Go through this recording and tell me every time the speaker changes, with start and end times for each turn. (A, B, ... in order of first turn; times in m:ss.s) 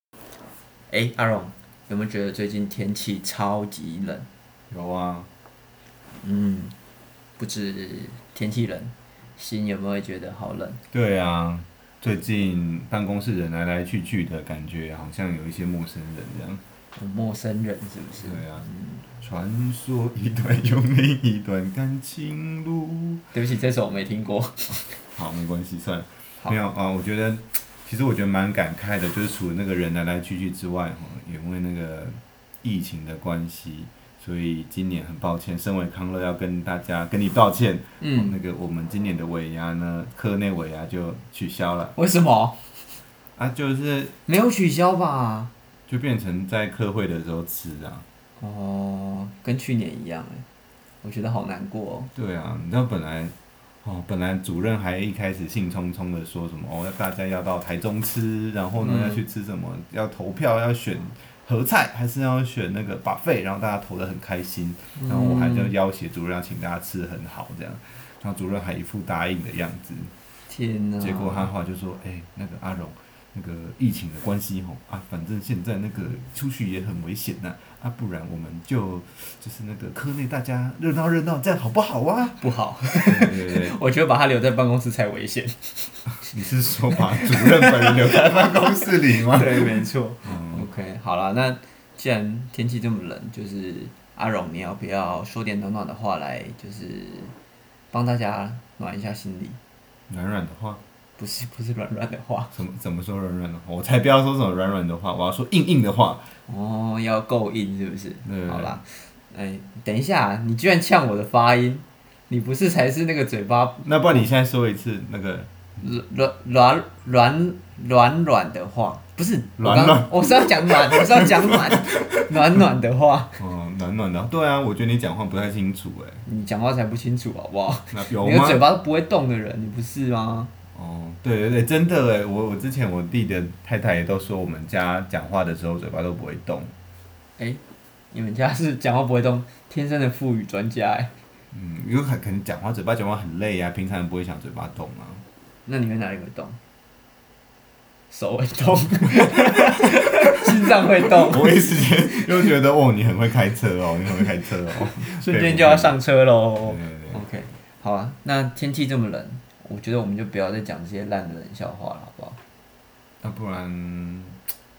0:00.9-0:04.3 A
0:04.7-0:05.3 B
0:06.2-0:06.7 A
0:07.4-0:10.8 A
0:10.9-0:16.6 B
0:17.0-0:19.0 A
0:18.2-0:23.2 B
0:23.3-0:25.0 A
0:25.1-0:42.0 B
0:38.0-0:38.4 A
0:42.0-0:42.8 A
0:43.4-0:44.1 B
0:44.3-0:45.5 A
0:45.9-0:48.0 B
0:48.4-0:50.4 A
0:51.0-0:52.1 A
0:52.1-1:10.1 B
0:58.8-0:59.2 A
1:05.0-1:05.7 A
1:10.5-1:11.5 A
1:11.0-1:23.8 B
1:22.4-1:26.1 A
1:26.3-1:29.7 B
1:26.9-1:37.3 A
1:30.2-1:30.7 B
1:37.9-1:39.6 A
1:40.1-1:40.8 B
1:41.2-1:42.5 A
1:42.5-1:46.3 B
1:46.5-1:54.2 A
1:48.2-1:48.8 B
1:53.8-1:55.5 B
1:55.8-2:03.4 A
1:59.6-2:02.6 B
2:03.4-2:06.2 B
2:06.3-2:10.5 A
2:07.9-2:08.6 B
2:10.7-2:16.7 B
2:18.1-2:21.1 A
2:21.5-2:25.2 B
2:25.6-2:26.6 A
2:28.1-2:32.5 A
2:29.4-2:30.5 B
2:31.1-2:36.0 B
2:34.8-2:42.4 A
2:36.6-2:37.2 B
2:43.2-2:44.4 B